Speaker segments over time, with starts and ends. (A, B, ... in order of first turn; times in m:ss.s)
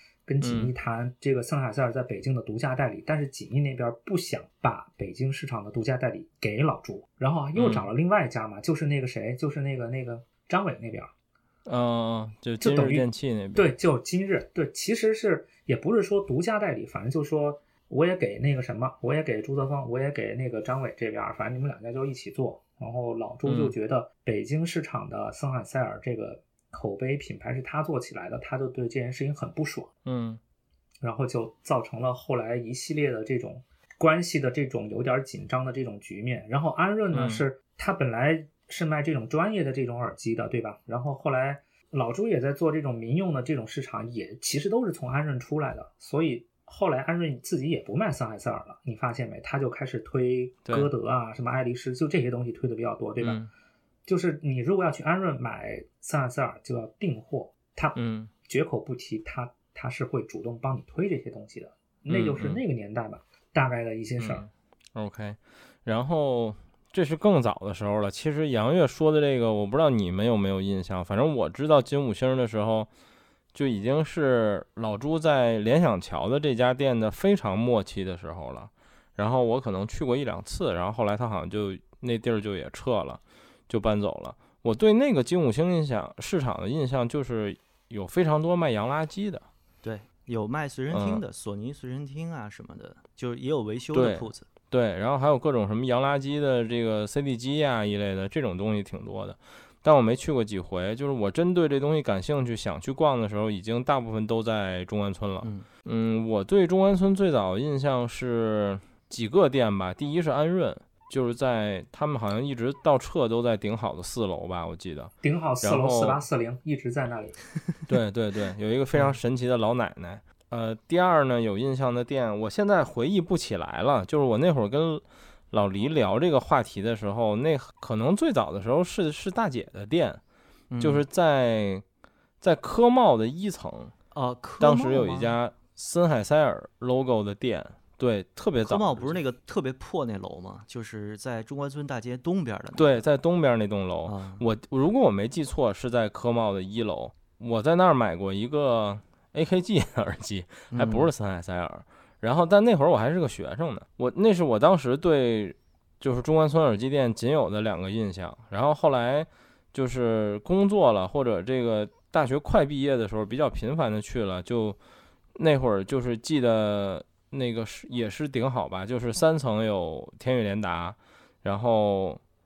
0:00.2-0:11.1 A
0:00.4-0:00.7 B
0:07.6-0:07.9 B
0:11.7-0:13.7 B
0:12.6-0:29.9 A
0:23.4-0:23.7 B
0:30.0-0:30.4 B
0:31.0-0:53.4 A
0:37.1-0:37.4 B
0:53.2-0:53.5 B
0:54.1-1:04.5 A
0:58.0-0:58.3 B
1:02.1-1:02.6 B
1:04.2-1:12.9 B
1:13.5-1:29.4 B
1:29.8-1:34.5 C
1:30.9-1:31.2 B
1:33.9-1:56.2 B
1:55.2-1:57.4 A
1:57.9-2:10.2 B
2:10.7-2:11.0 C
2:10.8-2:11.8 B
2:12.4-2:13.9 B
2:14.1-2:15.3 C
2:14.6-2:19.2 B
2:18.6-2:23.0 C
2:22.8-2:44.8 B
2:24.1-2:24.4 C
2:30.7-2:31.1 C
2:45.4-2:52.2 B